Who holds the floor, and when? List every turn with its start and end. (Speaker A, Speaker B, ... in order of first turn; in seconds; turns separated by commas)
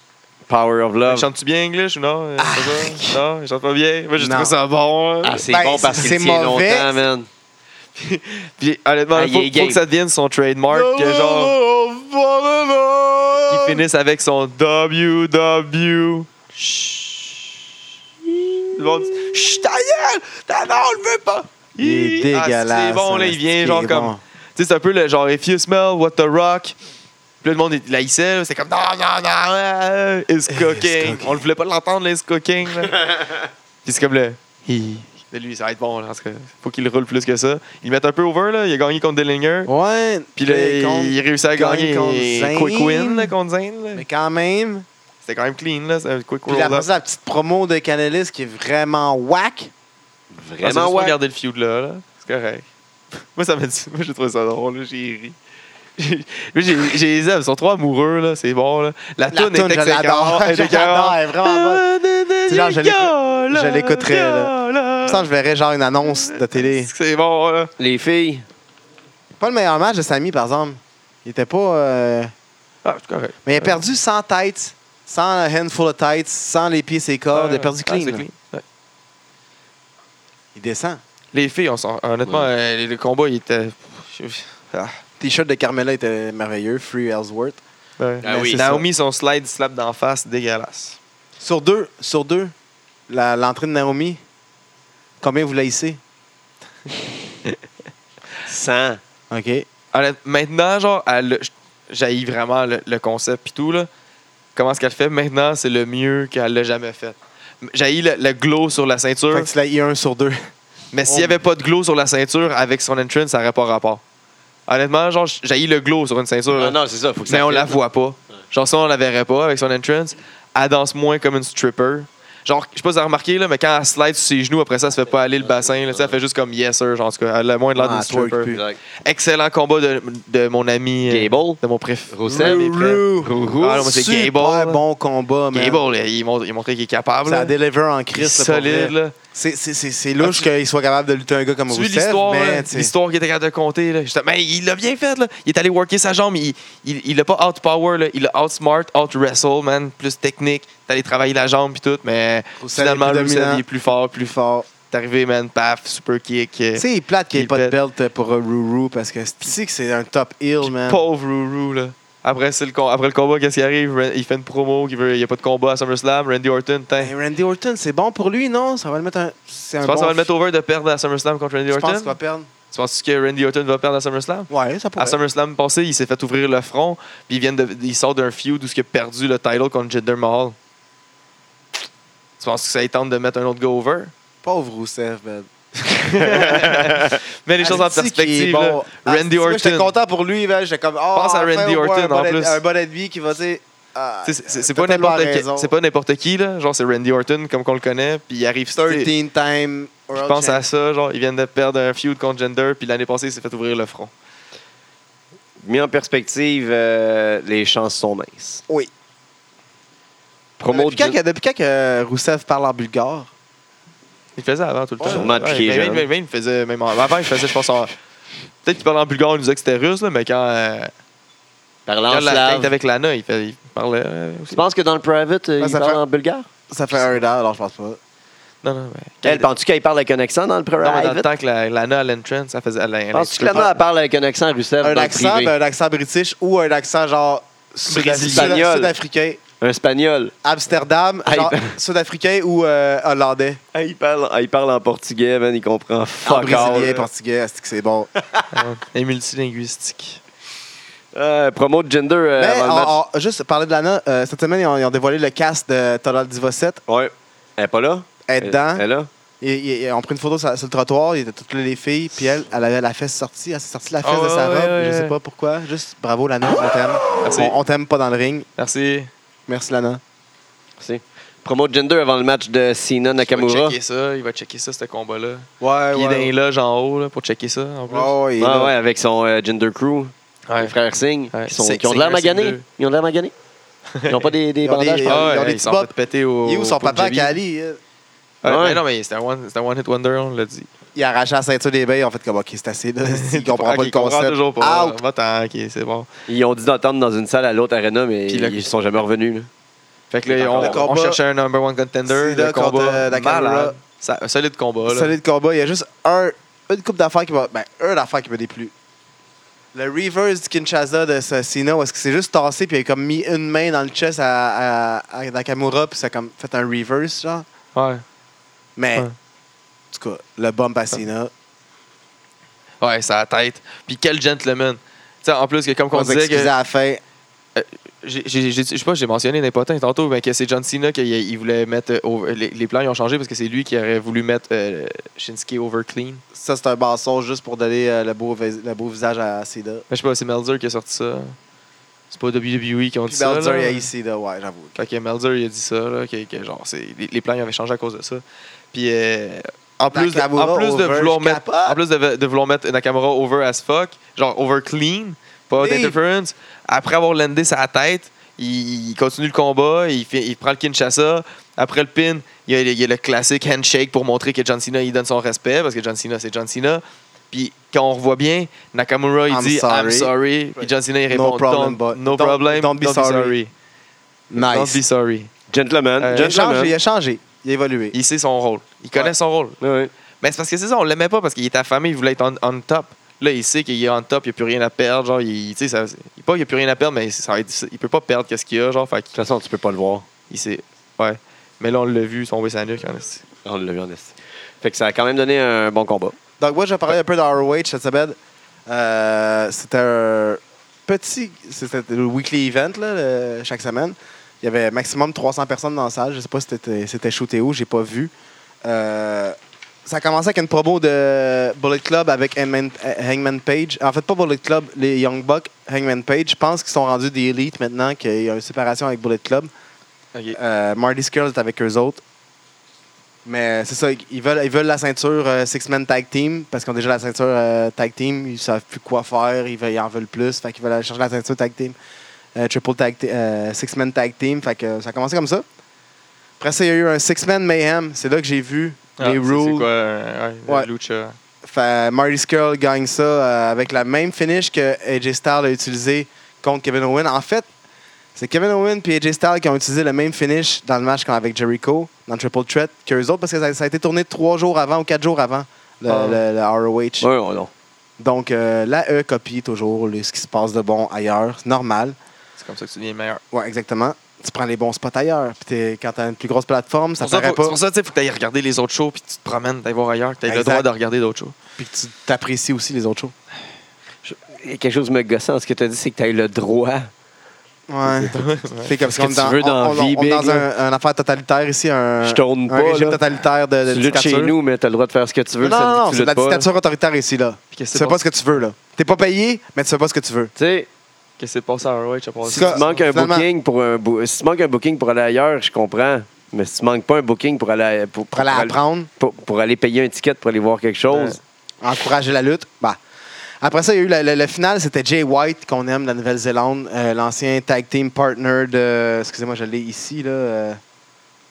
Speaker A: 0.5-1.3, Speaker B: 1.1-5.4, Speaker C: 2.4-3.2, Speaker C: 4.2-4.5, Speaker A: 5.2-7.3, Speaker C: 5.5-7.0, Speaker B: 8.0-11.6, Speaker A: 9.2-9.8, Speaker C: 10.7-13.8, Speaker B: 13.5-17.6, Speaker B: 18.7-26.8, Speaker C: 21.8-24.2, Speaker B: 27.4-33.0, Speaker C: 30.5-31.4, Speaker B: 33.9-39.7, Speaker C: 39.7-43.3, Speaker B: 40.4-44.1, Speaker C: 44.0-44.9, Speaker B: 45.2-46.9, Speaker C: 46.5-49.7, Speaker A: 50.4-51.2, Speaker B: 50.6-52.7, Speaker B: 53.3-55.4, Speaker B: 56.0-65.3, Speaker C: 59.3-61.8, Speaker C: 62.5-64.5, Speaker C: 65.0-66.9, Speaker B: 66.1-67.7, Speaker A: 67.8-68.5, Speaker C: 69.4-72.3, Speaker B: 72.8-73.8, Speaker C: 73.5-78.2, Speaker B: 77.3-78.6, Speaker C: 80.5-81.0, Speaker B: 81.3-85.0, Speaker C: 85.2-87.6, Speaker B: 88.0-91.0, Speaker C: 88.2-88.8, Speaker A: 88.2-88.7, Speaker C: 91.4-92.5, Speaker C: 93.1-94.2, Speaker C: 95.2-96.0, Speaker A: 98.5-99.0, Speaker C: 99.3-99.7, Speaker B: 99.9-103.9, Speaker B: 104.6-109.5, Speaker C: 109.3-110.5, Speaker B: 110.9-114.0, Speaker C: 111.1-111.4, Speaker B: 114.7-116.8, Speaker A: 116.5-117.8, Speaker B: 117.3-133.1, Speaker A: 125.4-126.2, Speaker C: 127.8-128.6, Speaker A: 128.5-128.8, Speaker A: 131.1-131.6, Speaker A: 132.1-133.9, Speaker C: 132.3-135.8, Speaker B: 133.6-134.8, Speaker B: 135.5-137.5, Speaker C: 137.3-142.9, Speaker B: 138.2-139.2, Speaker B: 140.2-140.4, Speaker B: 141.7-157.8, Speaker C: 152.6-153.6, Speaker C: 154.3-154.7, Speaker C: 156.8-161.0, Speaker B: 160.6-167.1, Speaker C: 167.0-170.3, Speaker B: 169.8-172.2, Speaker C: 171.7-172.5, Speaker B: 172.7-180.6, Speaker C: 174.5-175.2, Speaker B: 182.4-184.1, Speaker C: 184.4-185.5, Speaker B: 185.9-189.9, Speaker C: 186.0-187.1, Speaker C: 187.6-195.7, Speaker B: 191.1-192.6, Speaker B: 194.2-199.1, Speaker C: 198.8-200.6, Speaker B: 200.2-204.1, Speaker A: 205.6-208.6, Speaker A: 210.6-211.2, Speaker C: 210.7-213.3, Speaker B: 214.4-217.9, Speaker C: 215.0-215.3, Speaker A: 215.1-216.1, Speaker B: 218.6-220.9, Speaker A: 221.9-222.7, Speaker B: 222.1-224.6, Speaker A: 224.5-226.5, Speaker C: 225.6-226.0, Speaker C: 226.7-228.0, Speaker B: 228.6-229.5, Speaker A: 229.2-231.3, Speaker B: 230.8-233.7, Speaker A: 233.1-235.5, Speaker C: 234.8-239.4, Speaker B: 237.9-238.6, Speaker A: 238.1-238.9, Speaker A: 239.6-240.3, Speaker C: 240.4-243.6, Speaker A: 241.3-241.8, Speaker A: 243.7-247.0, Speaker C: 246.2-248.1, Speaker B: 246.4-247.0, Speaker B: 248.5-250.2, Speaker A: 251.1-252.9, Speaker C: 252.4-256.8, Speaker A: 256.9-259.1, Speaker C: 258.3-258.8, Speaker C: 259.4-268.5, Speaker B: 264.0-265.1, Speaker B: 267.2-267.6, Speaker B: 268.6-269.1, Speaker C: 269.5-270.0, Speaker A: 270.8-273.8, Speaker B: 273.2-278.1, Speaker C: 275.6-276.3, Speaker C: 277.9-278.7, Speaker A: 278.4-283.3, Speaker B: 280.5-280.7, Speaker B: 281.3-282.6, Speaker B: 283.9-284.3, Speaker A: 284.1-285.3, Speaker C: 284.6-285.9, Speaker B: 285.1-287.3, Speaker C: 286.4-287.8, Speaker B: 288.4-290.7, Speaker A: 288.4-288.8, Speaker C: 291.0-295.0, Speaker B: 293.1-296.1, Speaker A: 296.3-299.5, Speaker B: 298.3-298.6, Speaker B: 300.1-305.1, Speaker A: 300.3-300.8, Speaker C: 300.6-301.2, Speaker C: 302.1-303.8, Speaker C: 304.9-308.7, Speaker C: 309.7-317.5, Speaker B: 317.8-318.0, Speaker C: 318.8-319.1, Speaker C: 319.9-321.3, Speaker B: 322.8-326.5, Speaker C: 325.9-327.0, Speaker B: 327.6-336.2, Speaker C: 336.3-339.9, Speaker B: 339.9-341.4, Speaker B: 342.1-343.9, Speaker C: 343.1-344.8, Speaker B: 344.8-373.5, Speaker C: 349.9-351.8, Speaker C: 355.6-356.0, Speaker C: 369.3-373.4, Speaker C: 374.3-374.8, Speaker B: 374.4-375.3, Speaker A: 375.5-376.8, Speaker B: 376.0-376.4, Speaker C: 376.1-378.0, Speaker B: 377.9-379.6, Speaker A: 379.6-379.9, Speaker B: 380.2-389.1, Speaker A: 389.1-390.1, Speaker B: 390.3-393.2, Speaker A: 393.4-396.2, Speaker C: 396.4-408.1, Speaker C: 408.6-419.5, Speaker C: 420.3-422.0, Speaker C: 423.2-431.8, Speaker C: 432.4-435.4, Speaker C: 436.4-439.7, Speaker B: 439.0-441.2, Speaker C: 441.4-447.5, Speaker C: 448.1-457.1, Speaker B: 455.9-456.2, Speaker A: 457.0-457.5, Speaker C: 458.0-462.0, Speaker B: 462.4-463.2, Speaker C: 463.3-467.6, Speaker B: 467.0-471.4, Speaker C: 470.3-470.7, Speaker C: 471.6-473.1, Speaker A: 474.0-476.9, Speaker C: 477.7-484.4, Speaker B: 478.1-478.7, Speaker A: 478.9-480.5, Speaker A: 482.0-483.0, Speaker A: 483.7-486.5, Speaker C: 485.4-490.3, Speaker B: 487.5-488.0, Speaker A: 490.4-490.7, Speaker B: 491.2-492.8, Speaker C: 492.2-493.3, Speaker A: 492.3-501.2, Speaker C: 498.1-498.9, Speaker B: 500.9-501.2, Speaker C: 501.6-502.8, Speaker C: 503.4-510.6